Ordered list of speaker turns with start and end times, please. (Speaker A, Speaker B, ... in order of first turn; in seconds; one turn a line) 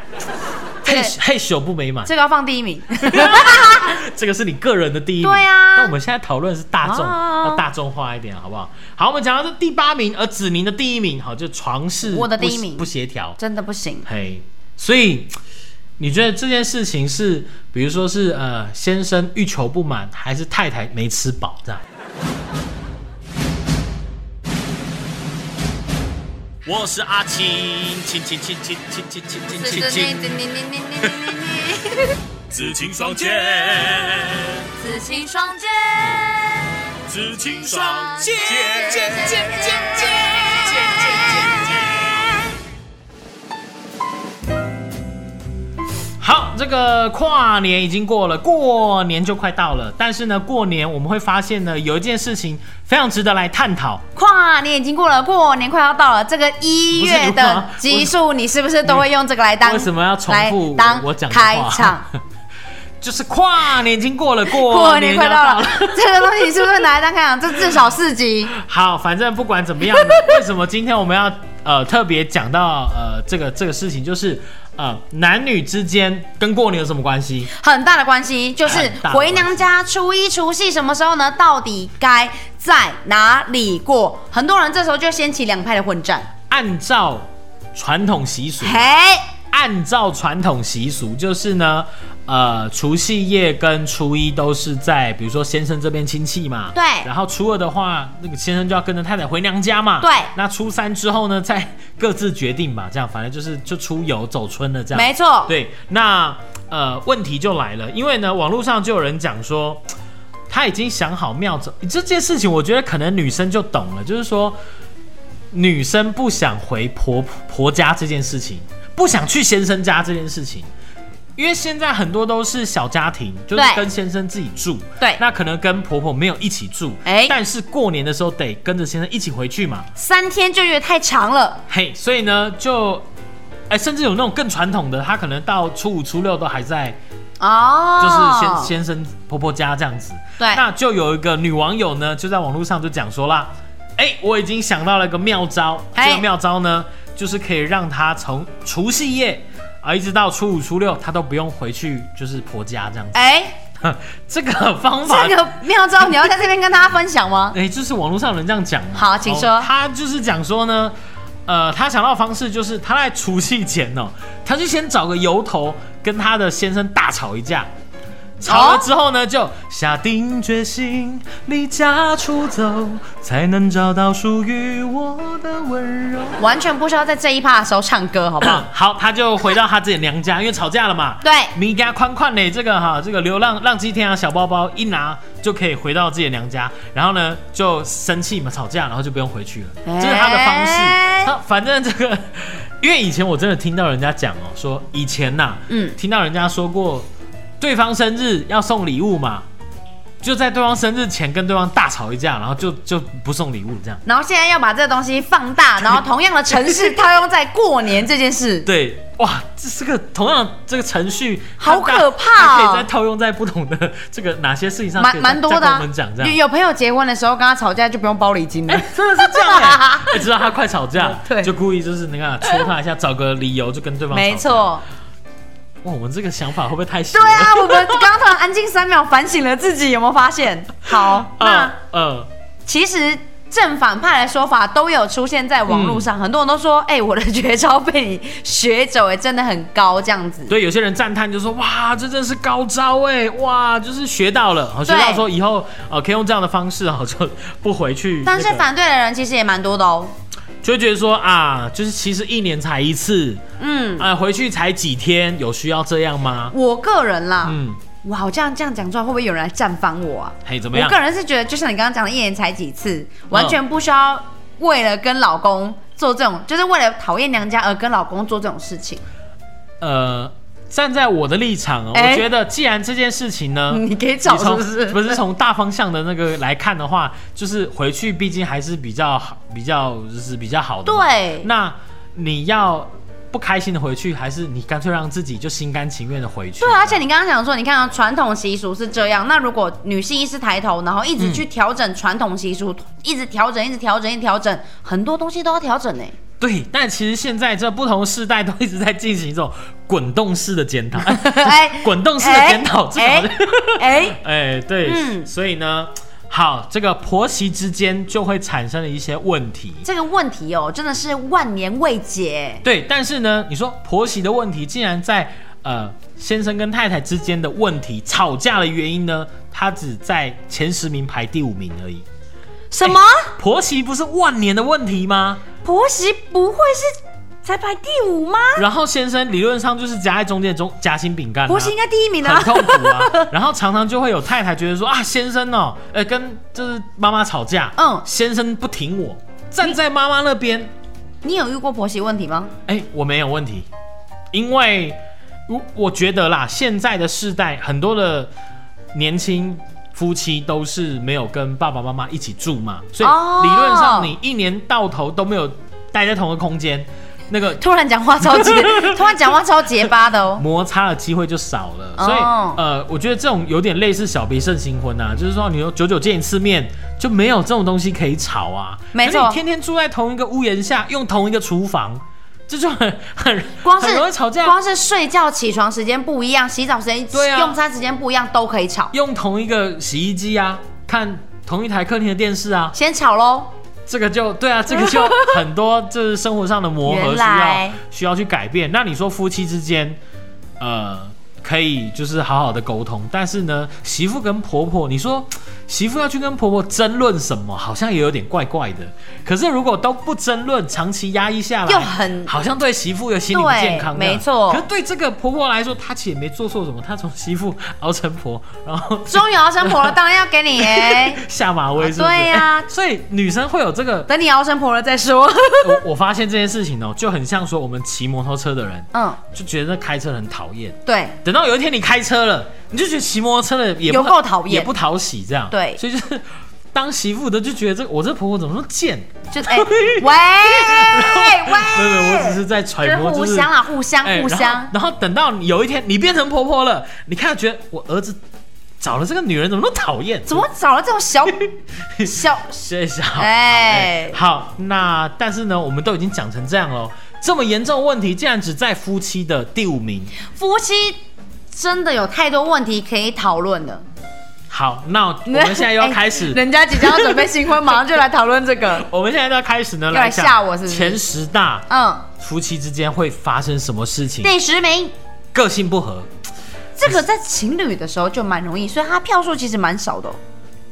Speaker A: 0.8-2.1
Speaker B: 0.8-1.1
Speaker B: 2.0-3.9
Speaker A: 3.0-13.4
Speaker B: 5.2-5.9
Speaker B: 6.8-7.6
Speaker B: 12.0-12.8
Speaker B: 13.4-14.1
Speaker A: 14.0-15.3
Speaker A: 16.0-21.8
Speaker A: 26.6-30.3
Speaker B: 29.4-32.2
Speaker A: 32.5-34.7
Speaker B: 34.8-36.8
Speaker A: 37.1-42.0
Speaker B: 37.6-42.4
Speaker A: 46.2-54.0
Speaker B: 54.1-62.0
Speaker A: 56.9-58.1
Speaker A: 59.6-62.2
Speaker A: 63.0-66.2
Speaker B: 64.5-68.5
Speaker A: 68.5-77.5
Speaker B: 70.0-70.2
Speaker B: 77.5-86.3
Speaker A: 78.7-79.6
Speaker A: 86.5-88.9
Speaker B: 88.6-89.3
Speaker A: 89.5-109.8
Speaker B: 96.7-97.1
Speaker B: 100.0-100.3
Speaker B: 104.9-105.5
Speaker A: 110.5-114.6
Speaker A: 115.5-120.7
Speaker A: 121.3-129.9
Speaker B: 123.5-123.8
Speaker B: 127.0-127.3
Speaker B: 129.9-131.6
Speaker A: 131.7-133.1
Speaker A: 133.7-137.0
Speaker B: 137.4-138.7
Speaker A: 138.0-153.2
Speaker B: 145.9-146.2
Speaker B: 153.1-153.6
Speaker A: 153.8-155.4
Speaker B: 155.0-157.6
Speaker A: 157.5-160.9
Speaker B: 158.9-159.7
Speaker A: 161.5-167.7
Speaker A: 168.4-176.4
Speaker B: 168.4-168.9
Speaker B: 176.4-178.6
Speaker A: 178.4-197.1
Speaker B: 181.2-181.5
Speaker B: 189.8-191.3
Speaker B: 195.7-196.0
Speaker A: 197.6-199.4
Speaker A: 200.2-204.0
Speaker B: 204.1-208.7
Speaker A: 208.6-216.4
Speaker B: 211.6-212.9
Speaker B: 215.0-220.2
Speaker A: 218.7-224.8
Speaker B: 221.0-221.5
Speaker B: 224.1-224.8
Speaker A: 225.8-228.1
Speaker B: 227.1-231.7
Speaker A: 230.9-232.3
Speaker B: 232.7-240.5
Speaker A: 235.7-236.1
Speaker A: 240.5-248.7
Speaker B: 244.8-245.2
Speaker B: 248.2-250.1
Speaker A: 250.6-253.4
Speaker B: 253.6-254.1
Speaker A: 254.0-256.5
Speaker B: 256.5-269.0
Speaker A: 257.4-257.8
Speaker A: 260.4-261.0
Speaker A: 263.3-263.6
Speaker A: 269.8-287.0
Speaker B: 271.9-272.3
Speaker B: 273.7-275.2
Speaker B: 280.9-281.5
Speaker B: 286.6-296.1
Speaker A: 291.2-291.4
Speaker A: 296.4-309.9
Speaker B: 301.0-304.2
Speaker B: 304.8-305.3
Speaker B: 309.8-312.6
Speaker A: 312.6-322.0
Speaker B: 322.7-323.3
Speaker A: 322.8-325.4
Speaker B: 325.6-328.6
Speaker A: 328.6-340.7
Speaker B: 331.5-333.3
Speaker B: 337.8-338.0
Speaker B: 341.2-342.5
Speaker A: 342.7-343.7
Speaker A: 344.3-348.3
Speaker A: 348.9-357.6
Speaker B: 353.0-354.1
Speaker B: 357.6-360.4
Speaker A: 358.2-359.3
Speaker A: 360.3-374.6
Speaker B: 362.0-362.6
Speaker B: 368.9-369.4
Speaker B: 373.6-378.9
Speaker A: 377.1-377.6
Speaker A: 378.9-382.8
Speaker B: 382.7-383.5
Speaker A: 383.9-390.0
Speaker B: 384.7-385.4
Speaker B: 386.9-387.8
Speaker A: 390.6-409.9
Speaker B: 401.6-402.3
Speaker B: 403.3-404.6
Speaker B: 409.1-411.2
Speaker A: 410.6-414.1
Speaker B: 411.8-412.7
Speaker B: 414.1-415.8
Speaker A: 415.6-438.2
Speaker B: 418.9-419.2
Speaker B: 420.9-421.2
Speaker B: 423.9-424.7
Speaker B: 425.5-425.8
Speaker B: 429.3-434.7
Speaker A: 438.8-440.4
Speaker B: 440.2-441.4
Speaker A: 441.3-450.1
Speaker B: 442.0-442.5
Speaker B: 443.2-444.2
Speaker B: 450.2-451.0
Speaker B: 451.5-453.8
Speaker A: 454.5-457.3
Speaker B: 455.3-458.9
Speaker A: 458.7-461.6
Speaker B: 459.9-461.0
Speaker B: 461.7-462.1
Speaker A: 462.2-464.3
Speaker B: 464.2-464.9
Speaker A: 465.3-466.1
Speaker B: 466.8-470.2